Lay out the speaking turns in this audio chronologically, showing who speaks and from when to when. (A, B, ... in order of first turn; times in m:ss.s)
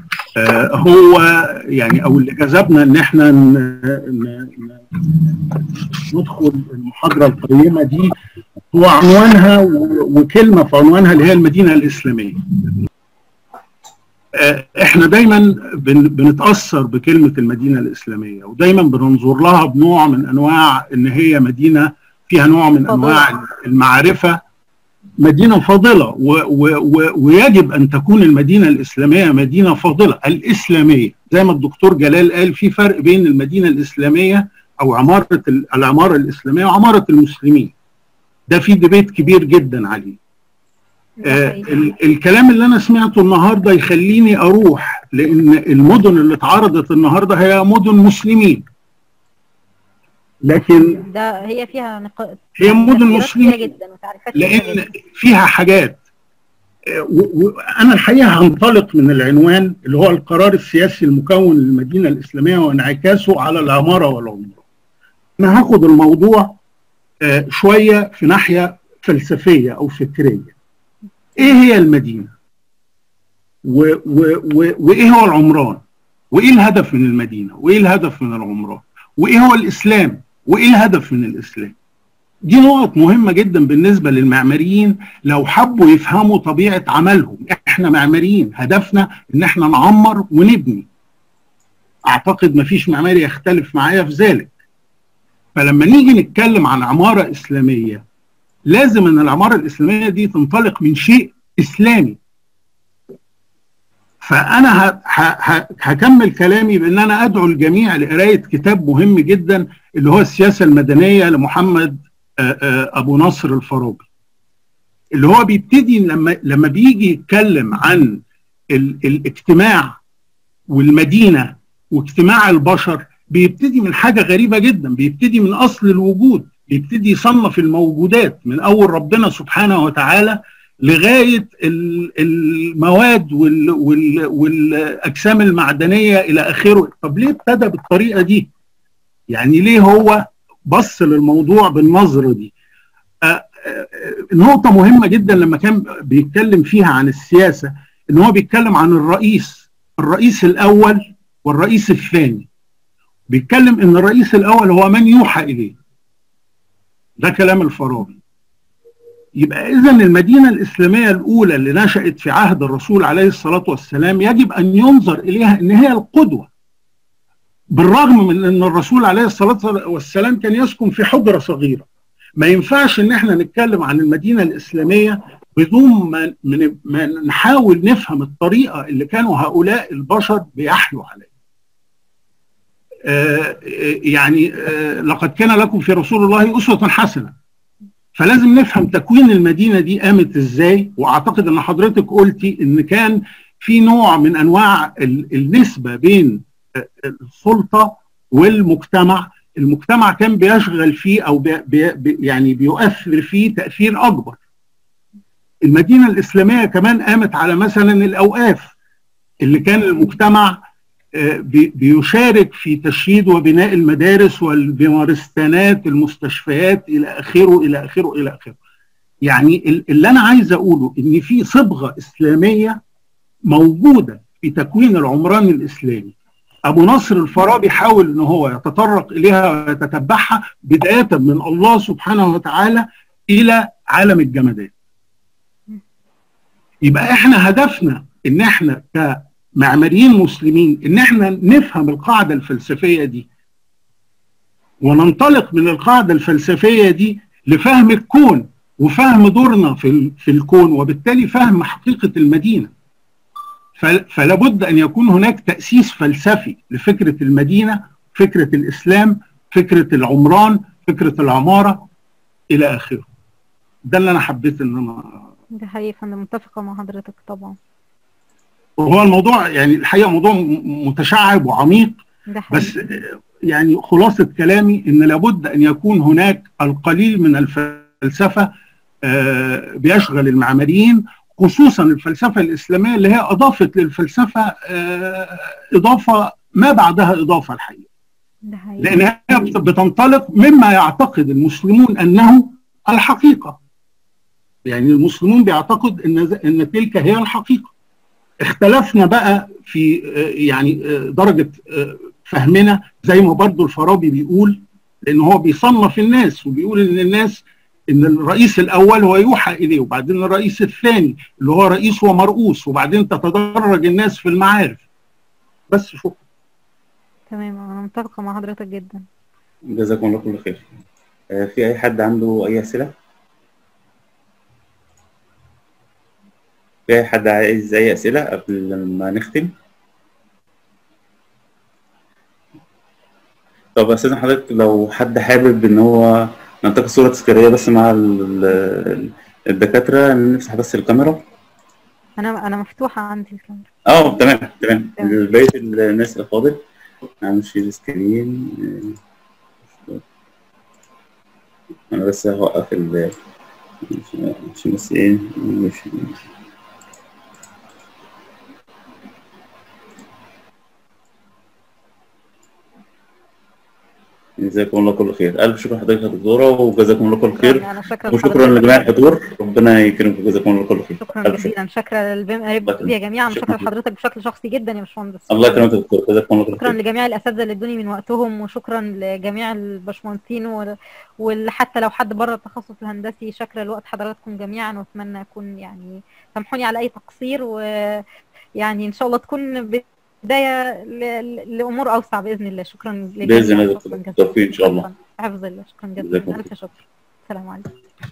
0:00.4-0:08.2 A
0:08.7-0:12.7 A
0:14.4-0:24.4 A
0:22.9-0:23.3 B
0:25.2-0:37.7 A
0:38.5-0:40.2 A
0:41.2-0:41.7 B
0:41.3-0:48.6 A
0:50.4-0:51.0 A
0:50.8-0:54.9 B
0:52.6-0:53.7 A
0:54.4-0:56.0 A
0:57.0-1:04.6 A
1:05.4-1:06.6 A
1:07.2-1:10.5 A
1:11.4-1:12.3 A
1:13.6-1:21.8 A
1:22.4-1:30.9 A
1:32.1-1:34.5 A
1:35.6-1:38.0 A
1:38.7-1:42.2 A
1:44.2-1:54.0 A
1:55.2-1:58.2 A
1:58.7-2:00.0 A
2:00.7-2:18.5 A
2:19.3-2:22.5 A
2:23.2-2:32.5 A
2:33.3-2:35.8 A
2:37.2-2:38.2 A
2:39.4-2:46.5 A
2:47.7-2:51.9 A
2:52.4-3:01.3 A
3:03.1-3:07.4 A
3:08.2-3:24.4 A
3:25.6-3:28.7 A
3:29.4-3:30.6 A
3:31.2-3:38.6 A
3:39.2-3:42.8 A
3:43.5-3:46.2 A
3:46.7-3:54.7 A
3:56.8-4:03.3 A
4:04.8-4:12.7 A
4:13.8-4:21.9 A
4:22.5-4:23.1 A
4:23.8-4:25.3 A
4:25.6-4:27.6 B
4:28.8-4:32.0 A
4:32.3-4:32.7 B
4:32.5-4:38.5 A
4:39.1-4:47.9 A
4:48.5-4:49.5 B
4:48.8-4:53.6 A
4:54.7-4:57.7 A
4:58.4-5:14.8 A
5:15.7-5:16.2 A
5:17.3-5:19.0 B
5:19.7-5:20.7 C
5:21.3-5:22.9 C
5:26.9-5:29.5 C
5:33.8-5:41.2 C
5:42.2-5:43.7 B
5:43.9-5:46.6 C
5:47.2-5:49.0 C
5:51.9-5:53.2 C
5:53.9-5:56.2 C
6:04.4-6:11.5 C
6:07.4-6:08.9 B
6:11.0-6:15.7 B
6:12.6-6:13.7 C
6:15.3-6:16.8 C
6:16.6-6:28.0 B
6:28.6-6:37.7 B
6:33.2-6:34.9 C
6:36.0-6:36.4 C